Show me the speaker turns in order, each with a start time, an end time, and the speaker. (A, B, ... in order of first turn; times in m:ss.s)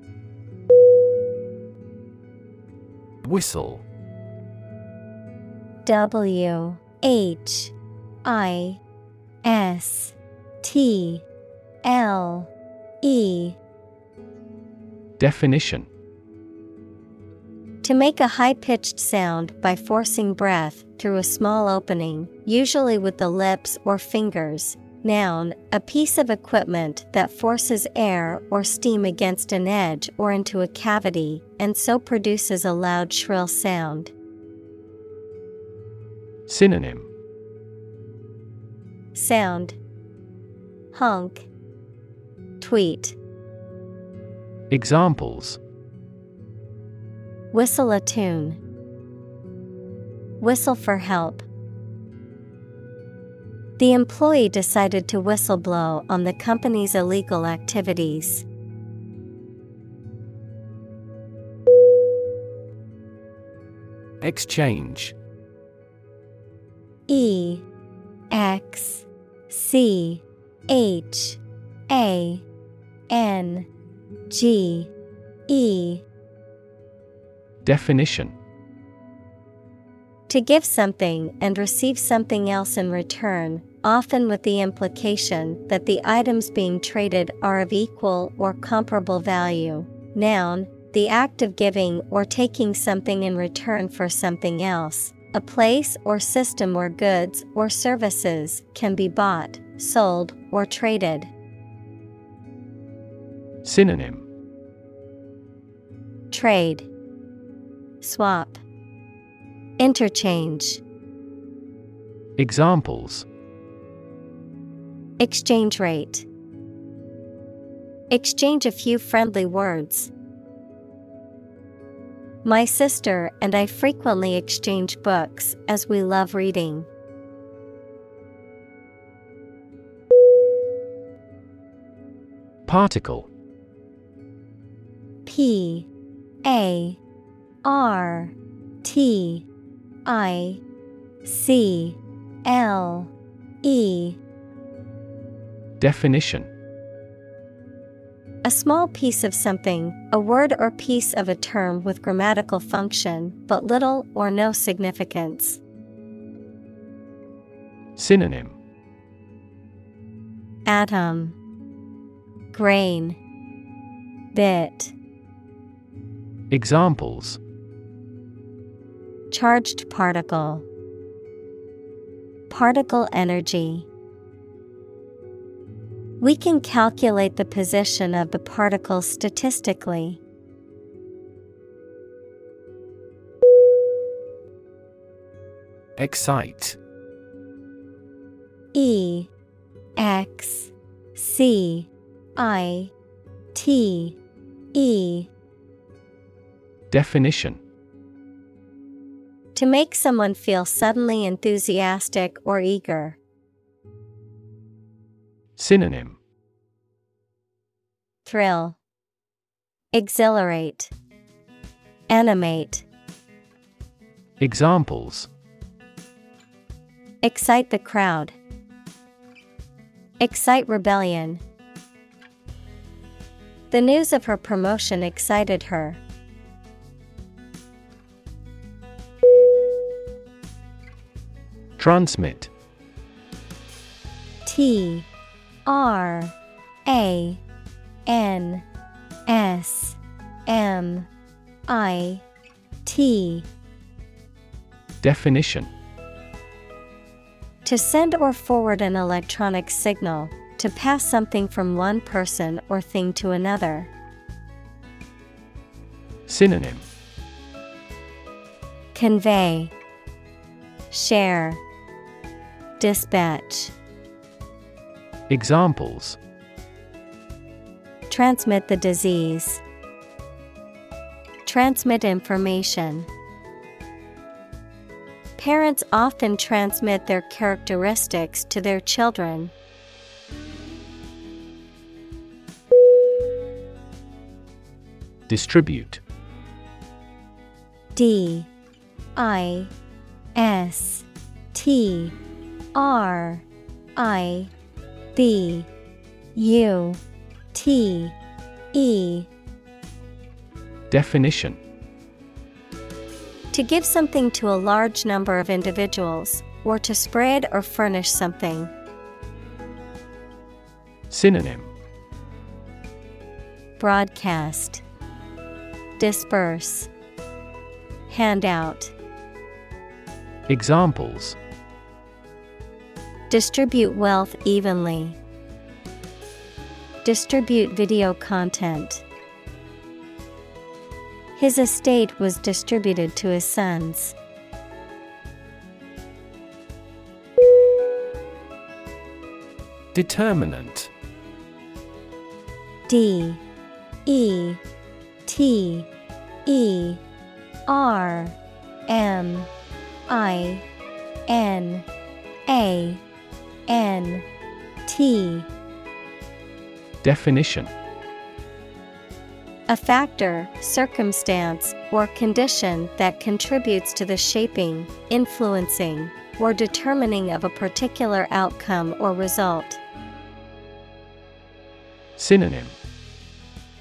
0:03.2-0:03.8 A
0:05.8-0:07.7 B
0:08.2-0:08.8 B
0:09.4-0:11.2 B
0:11.8-0:12.5 B
0:13.0-0:13.6 B
0:15.2-0:15.9 A
0:17.8-0:34.1 B
0:36.5-0:37.1 A
0:39.1-0:39.8 B
0:40.9-0:41.5 B
0:42.6-0:43.2 B
0:44.7-0:45.6 A
0:47.5-0:48.6 B
0:50.4-0:51.5 B
0:53.8-0:58.5 B
1:04.2-1:05.2 A
1:07.1-1:07.6 B
1:08.3-1:12.4 B
1:13.1-1:13.7 B
1:14.3-1:14.9 B
1:15.5-1:16.0 B
1:17.6-1:18.4 A
1:20.3-1:41.3 B
1:43.6-1:44.3 A
1:46.3-1:46.9 B
1:48.0-1:48.6 B
1:49.8-1:50.8 B
1:52.4-1:53.3 A
1:55.2-1:56.3 B
1:58.1-2:00.1 B
2:02.4-2:06.9 B
2:12.7-2:13.3 A
2:15.3-2:15.9 B
2:16.4-2:17.0 B
2:17.6-2:19.5 B
2:20.0-2:20.6 B
2:21.2-2:23.1 B
2:23.6-2:24.2 B
2:25.8-2:26.5 A
2:28.4-2:35.6 B
2:38.0-2:38.6 A
2:40.7-2:41.4 B
2:42.5-2:43.2 B
2:44.3-2:45.0 B
2:46.5-2:47.4 A
2:49.3-2:50.7 B
2:52.5-2:53.9 B
2:56.2-3:00.2 B
3:06.0-3:06.8 A
3:08.7-3:09.3 B
3:10.0-3:12.9 B
3:13.5-3:14.2 B
3:14.7-3:15.3 B
3:16.9-3:17.6 A
3:19.6-3:23.2 B
3:25.6-3:26.2 A
3:28.2-3:28.8 B
3:29.9-3:30.9 B
3:32.1-3:32.9 B
3:34.4-3:35.3 A
3:37.2-3:38.4 B
3:40.2-3:41.4 B
3:43.7-3:46.0 B
3:51.8-3:52.5 A
3:54.4-3:55.1 B
3:55.7-3:56.4 B
3:56.9-3:57.4 B
3:58.1-3:58.6 B
3:59.3-4:01.1 B
4:01.7-4:02.2 B
4:02.8-4:03.5 B
4:05.0-4:05.7 A
4:07.6-4:13.9 B
4:16.3-4:16.9 A
4:18.9-4:19.7 B
4:20.9-4:21.6 B
4:22.8-4:23.7 B
4:25.3-4:26.2 A
4:28.1-4:29.6 B
4:31.4-4:33.1 B
4:35.4-4:39.5 B
4:45.3-4:46.0 A
4:48.0-4:48.5 B
4:49.2-4:49.7 B
4:50.4-4:52.2 B
4:52.8-4:54.5 B
4:55.2-4:55.7 B
4:56.4-4:57.0 B
4:57.5-4:58.2 B
4:58.7-4:59.3 B
5:00.9-5:01.6 A
5:03.5-5:08.7 B
5:11.1-5:11.7 A
5:13.8-5:14.8 B
5:16.0-5:16.9 B
5:18.1-5:18.9 B
5:20.5-5:21.4 A
5:23.3-5:25.2 B
5:27.0-5:29.0 B
5:31.4-5:34.2 B
5:39.9-5:40.9 A
5:42.9-5:43.4 B
5:44.1-5:44.6 B
5:45.3-5:45.9 B
5:46.5-5:47.0 B
5:47.7-5:49.5 B
5:50.1-5:50.6 B
5:51.3-5:51.9 B
5:52.5-5:53.0 B
5:53.7-5:54.3 B
5:54.9-5:55.5 B
5:57.0-5:57.7 A
5:59.7-6:09.8 B
6:12.2-6:12.8 A